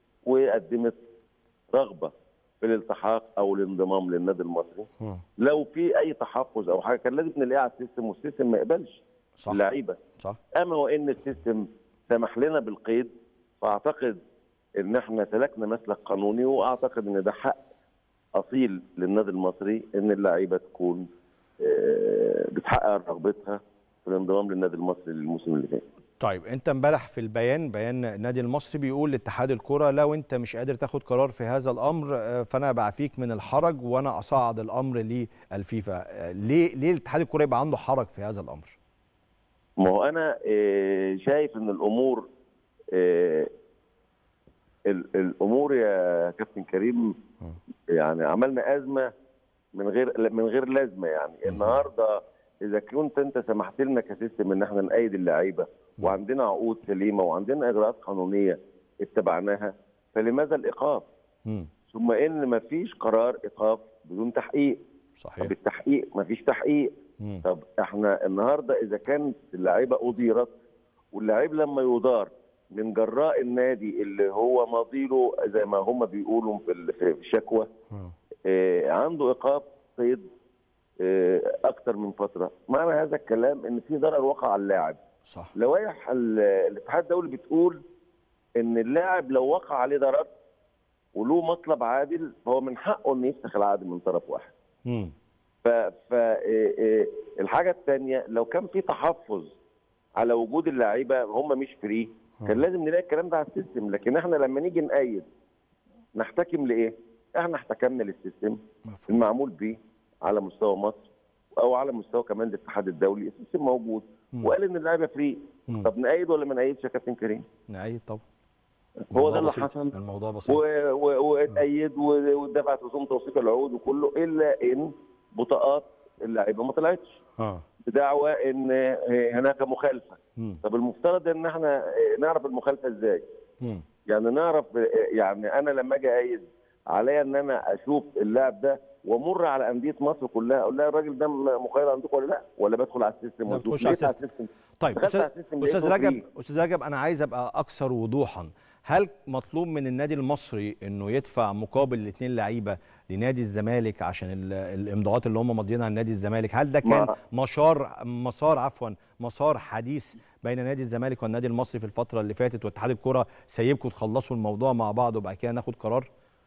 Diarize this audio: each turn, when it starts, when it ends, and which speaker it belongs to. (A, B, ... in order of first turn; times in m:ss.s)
0:00.2-0:01.0 A
0:01.7-0:04.9 A
0:05.4-0:10.0 A
0:09.4-0:09.6 B
0:10.6-0:14.2 A
0:14.8-0:17.6 A
0:18.4-0:21.0 A
0:21.6-0:25.8 A
0:26.2-0:38.8 B
0:39.8-0:42.3 A
0:42.9-0:43.5 A
0:44.9-0:47.1 A
0:47.9-0:49.1 A
0:49.8-0:52.1 A
0:51.5-0:51.8 B
0:52.6-1:01.1 A
1:01.9-1:04.8 A
1:05.2-1:05.5 B
1:05.4-1:06.9 A
1:07.4-1:10.5 A
1:11.1-1:17.7 A
1:18.5-1:20.2 A
1:21.0-1:25.0 A
1:25.3-1:25.5 B
1:25.6-1:27.8 A
1:28.6-1:30.3 A
1:31.2-1:34.5 A
1:34.9-1:35.1 B
1:35.6-1:39.6 A
1:40.2-1:45.2 A
1:46.2-1:57.4 A
1:48.9-1:49.2 B
1:57.7-1:58.2 B
1:59.1-2:07.2 A
1:59.1-2:00.6 B
2:07.4-2:07.6 B
2:07.8-2:13.2 A
2:14.1-2:26.2 A
2:23.5-2:24.2 B
2:24.8-2:46.1 B
2:36.8-2:37.1 A